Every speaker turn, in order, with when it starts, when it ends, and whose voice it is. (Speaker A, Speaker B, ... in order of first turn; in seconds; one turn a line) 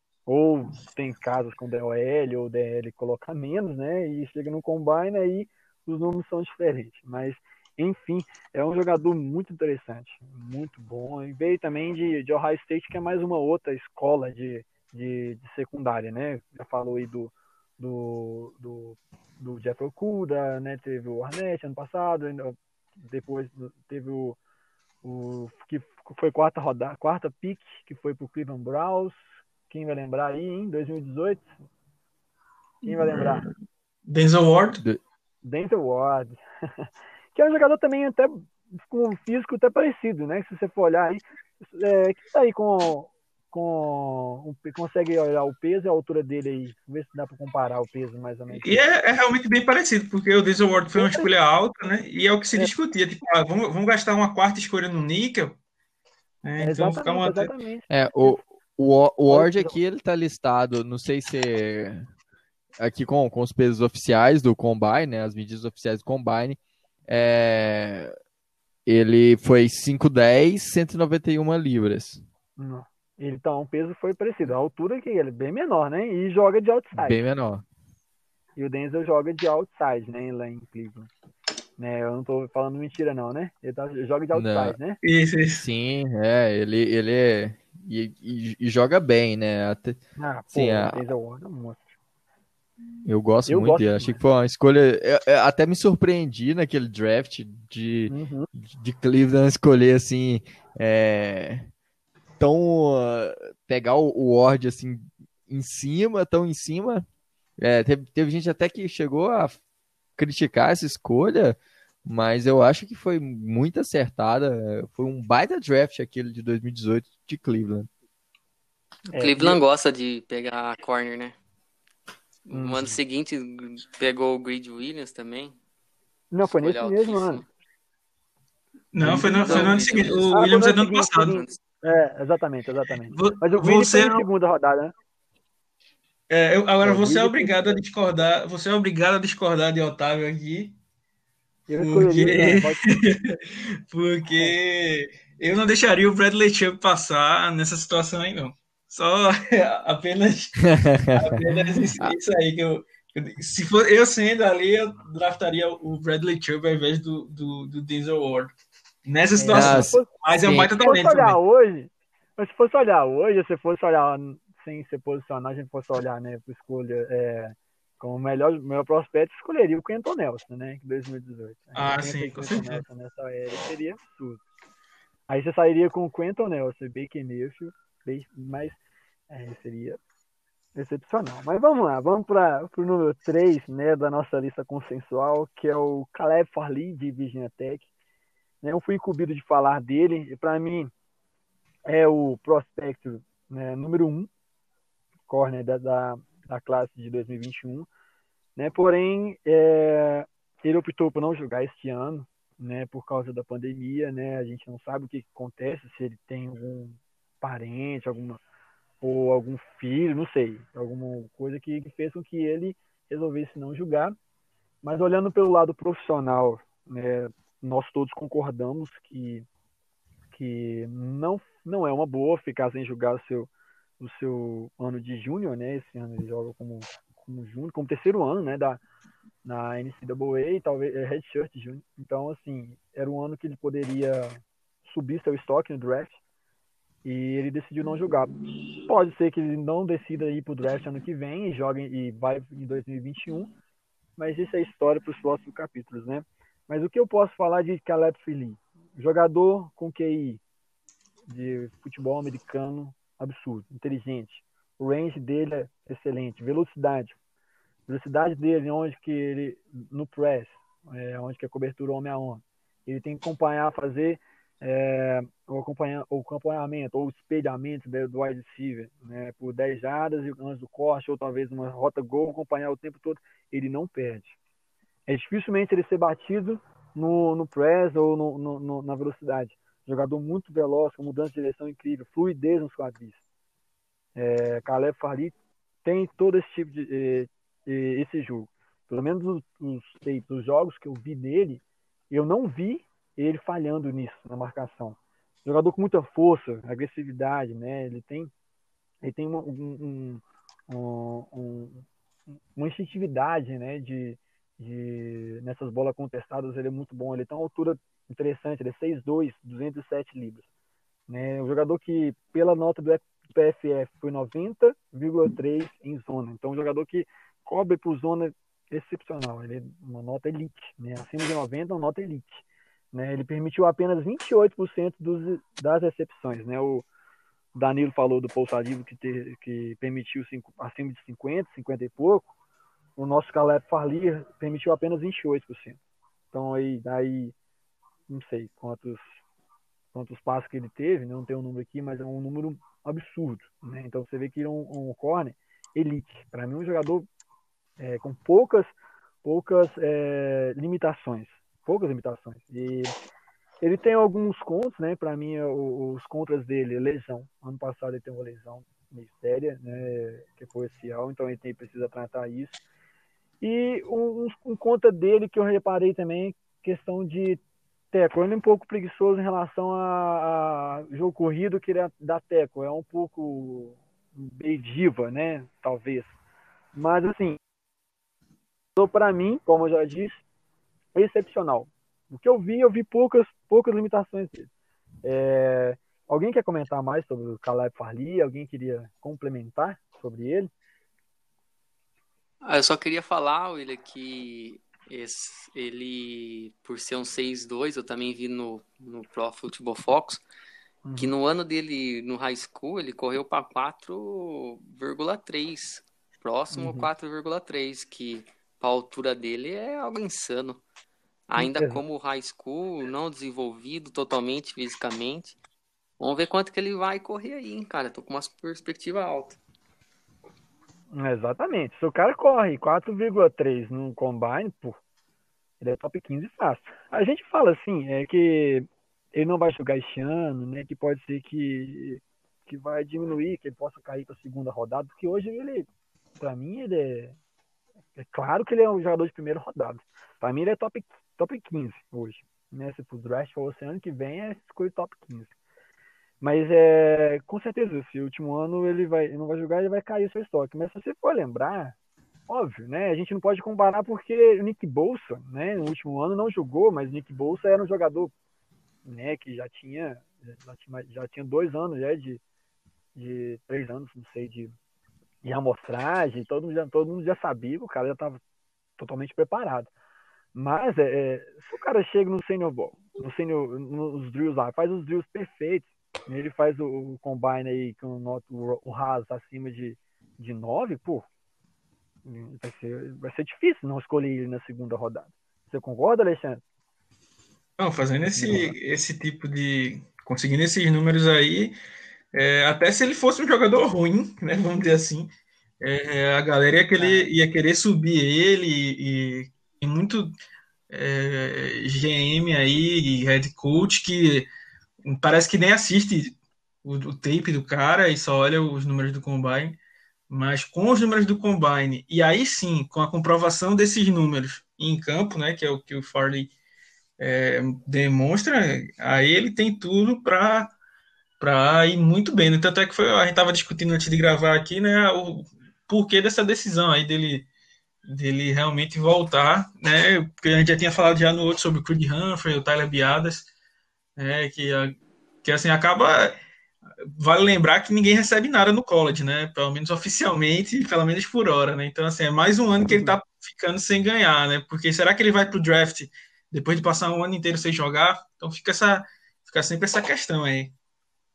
Speaker A: 0.3-24.4
Speaker A: 25.0-31.5
Speaker A: 32.9-33.5
Speaker B: 32.9-33.5
Speaker B: 34.1-34.8
Speaker A: 35.4-48.8
Speaker B: 48.6-55.6
Speaker A: 51.0-51.3
Speaker B: 56.4-57.5
Speaker A: 56.6-58.4
Speaker C: 57.9-62.1
Speaker A: 59.3-59.8
Speaker C: 62.8-68.1
Speaker C: 68.9-72.2
Speaker A: 72.6-77.2
Speaker C: 76.9-77.7
Speaker A: 78.6-81.1
Speaker A: 81.8-85.0
Speaker C: 84.3-84.8
Speaker B: 85.0-85.7
Speaker C: 85.6-90.0
Speaker A: 90.2-92.0
Speaker C: 90.5-91.0
Speaker C: 93.1-101.7
Speaker A: 93.5-94.2
Speaker A: 98.1-98.5
Speaker C: 102.4-107.0
Speaker C: 107.6-109.6
Speaker C: 110.2-117.9
Speaker A: 119.1-119.6
Speaker D: 119.1-121.4
Speaker D: 122.5-125.6
Speaker A: 122.5-123.0
Speaker A: 126.3-127.4
Speaker D: 126.6-127.5
Speaker B: 128.9-131.6
Speaker A: 129.0-134.9
Speaker D: 129.4-130.3
Speaker B: 133.1-134.3
Speaker B: 136.3-140.8
Speaker A: 136.8-137.8
Speaker A: 141.7-143.0
Speaker B: 141.8-158.5
Speaker C: 150.6-151.4
Speaker A: 151.5-151.8
Speaker B: 159.1-161.4
Speaker A: 159.4-160.1
Speaker C: 159.5-160.7
Speaker A: 160.8-174.4
Speaker B: 171.8-172.8
Speaker A: 175.3-178.8
Speaker A: 179.3-180.0
Speaker A: 180.8-187.9
Speaker A: 188.6-190.9
Speaker A: 191.9-194.3
Speaker A: 195.3-197.9
Speaker A: 198.6-208.4
Speaker A: 209.0-214.2
Speaker A: 214.8-219.5
Speaker A: 220.3-228.8
Speaker A: 229.4-236.2
Speaker A: 237.0-243.5
Speaker A: 244.2-250.4
Speaker A: 251.3-257.1
Speaker A: 257.9-274.4
Speaker A: 275.1-283.2
Speaker A: 284.2-298.3
Speaker A: 299.0-301.9
Speaker A: 302.6-310.4
Speaker A: 311.1-326.9
Speaker A: 327.6-332.3
Speaker A: 333.0-335.8
Speaker A: 336.3-337.3
Speaker A: 338.1-339.2
Speaker A: 339.9-347.1
Speaker A: 347.8-352.9
Speaker A: 353.6-362.6
Speaker A: 363.4-367.4
Speaker A: 367.9-376.1
Speaker A: 376.8-377.4
Speaker A: 378.8-380.2
Speaker A: 380.9-384.5
Speaker A: 385.0-390.5
Speaker D: 392.4-400.2
Speaker A: 400.9-401.1
Speaker D: 401.0-410.6
Speaker A: 406.5-406.9
Speaker D: 411.3-415.4
Speaker A: 411.4-411.8
Speaker D: 416.0-419.4
Speaker A: 420.9-424.8
Speaker A: 425.6-435.7
Speaker A: 436.2-437.2
Speaker A: 438.0-445.3
Speaker A: 446.2-451.8
Speaker A: 452.3-458.1
Speaker A: 458.9-462.2
Speaker A: 462.9-464.5
Speaker A: 465.2-468.2
Speaker A: 468.8-469.7
Speaker A: 470.4-481.1
Speaker A: 482.1-486.4
Speaker B: 487.6-491.6
Speaker A: 488.1-488.6
Speaker B: 492.1-495.1
Speaker B: 495.6-500.1
Speaker A: 496.8-497.1
Speaker B: 500.7-504.3
Speaker B: 504.9-509.6
Speaker B: 510.1-516.3
Speaker B: 517.0-520.5
Speaker B: 521.2-527.3
Speaker B: 527.9-533.3
Speaker B: 534.0-536.2
Speaker B: 537.0-550.5
Speaker A: 542.7-543.0